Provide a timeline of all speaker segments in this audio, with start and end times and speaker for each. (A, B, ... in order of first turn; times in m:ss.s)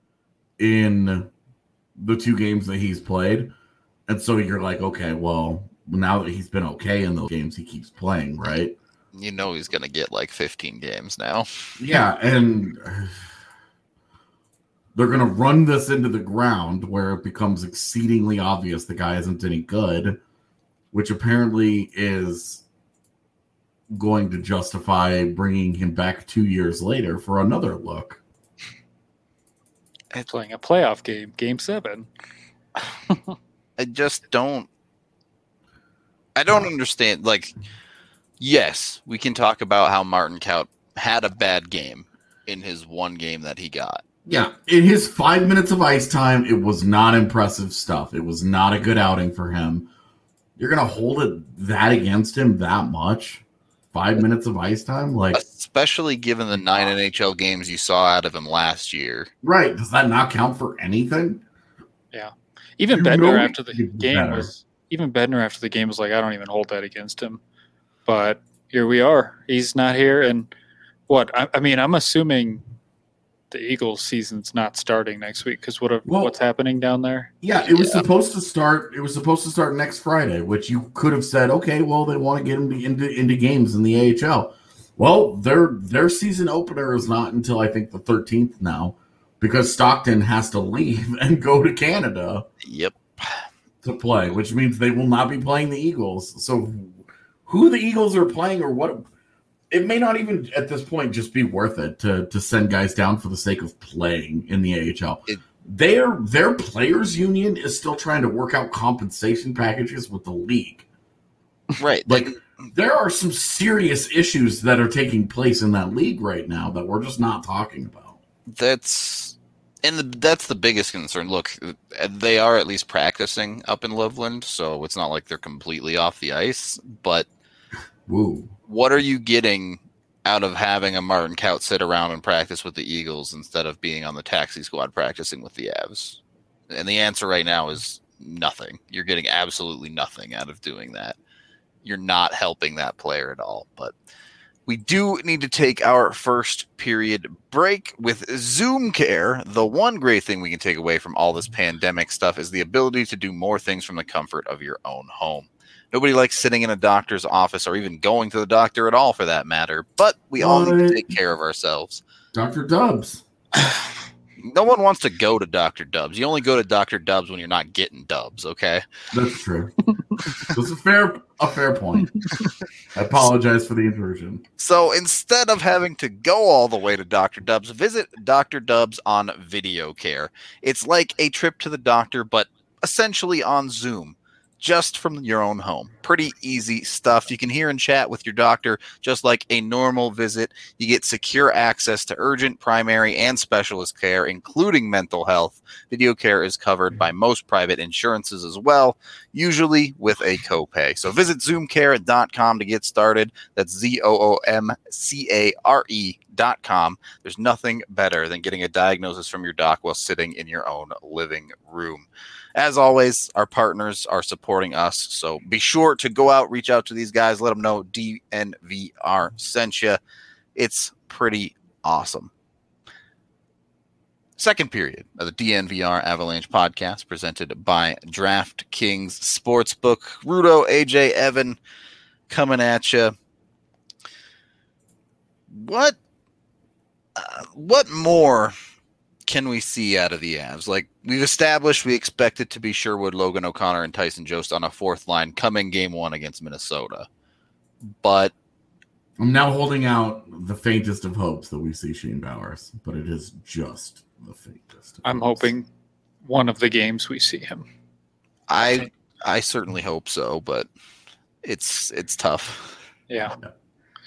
0:00.6-0:01.3 A
0:02.0-0:03.5 A
0:04.1-0:08.8 A
0:09.1-0:11.7 B
0:11.8-0:13.3 A
0:14.9-0:20.2 A
0:20.9-0:22.6 A
0:23.9-0:28.2 A
0:30.1-0:32.1 C
0:33.8-0:34.7 B
0:36.3-0:37.5 B
0:38.4-0:44.0 B
0:44.2-0:49.9 A
0:50.6-0:55.4 A
0:55.3-0:59.3 B
0:59.4-1:01.4 A
1:02.1-1:07.4 C
1:02.9-1:04.5 A
1:08.0-1:10.5 C
1:11.1-1:12.6 C
1:13.5-1:17.3 C
1:16.0-1:16.3 A
1:17.4-1:32.4 A
1:32.6-1:33.4 B
1:33.8-1:39.0 A
1:39.7-1:50.8 A
1:51.8-1:52.4 B
1:52.0-1:58.2 A
1:58.5-2:07.3 B
2:08.1-2:08.5 A
2:08.7-2:21.2 B
2:21.8-2:23.9 B
2:24.7-2:42.0 B
2:40.4-2:41.0 A
2:42.3-2:43.2 A
2:44.4-2:48.8 B
2:49.1-2:49.7 A
2:50.5-2:52.1 A
2:52.2-2:52.4 C
2:52.9-2:54.4 A
2:54.6-3:40.0 B
3:40.6-3:42.3 B
3:44.4-3:51.6 B
3:52.3-3:53.1 B
3:55.5-3:56.0 B
3:57.2-3:58.5 B
3:59.3-4:07.1 B
4:07.9-4:08.3 B
4:09.2-4:15.5 A
4:15.0-4:15.7 C
4:16.2-4:17.6 C
4:18.5-4:20.7 B
4:21.4-4:22.8 B
4:23.1-4:23.3 C